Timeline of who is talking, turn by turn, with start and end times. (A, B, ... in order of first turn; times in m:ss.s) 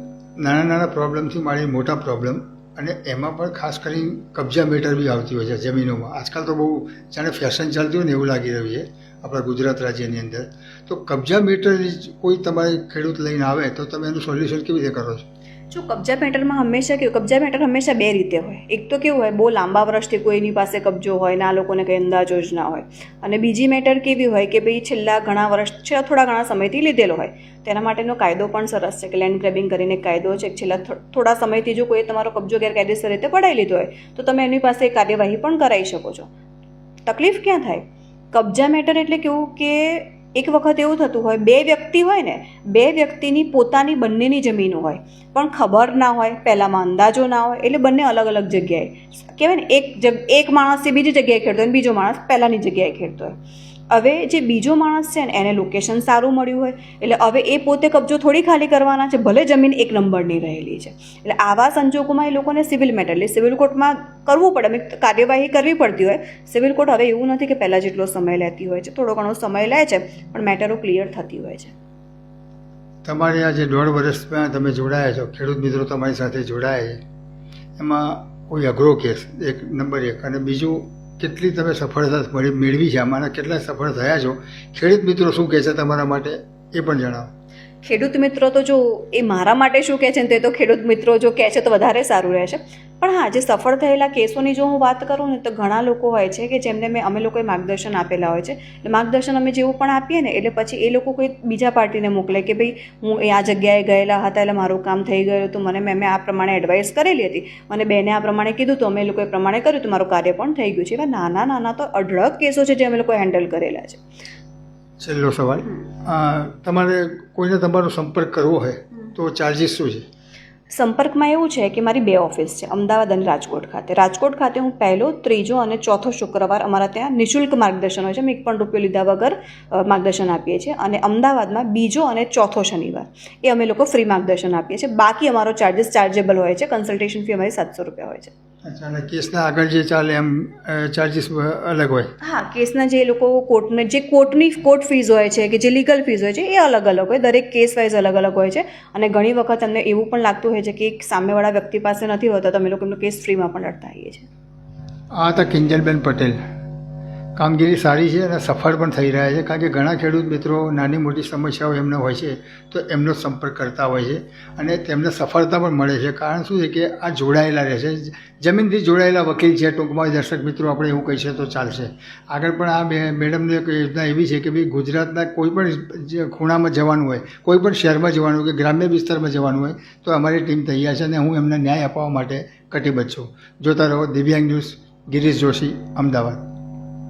0:00.4-0:15.2 A
0:15.7-0:36.3 B
0:37.1-0:53.4 B
0:53.9-1:11.7 B
1:13.0-1:17.0 A
1:17.8-1:27.3 A
1:27.8-1:54.0 B
1:55.0-2:00.1 A
2:00.7-2:18.3 B
2:18.6-2:22.1 A
2:22.2-2:34.3 B
2:35.2-2:36.4 A
2:37.4-3:06.5 A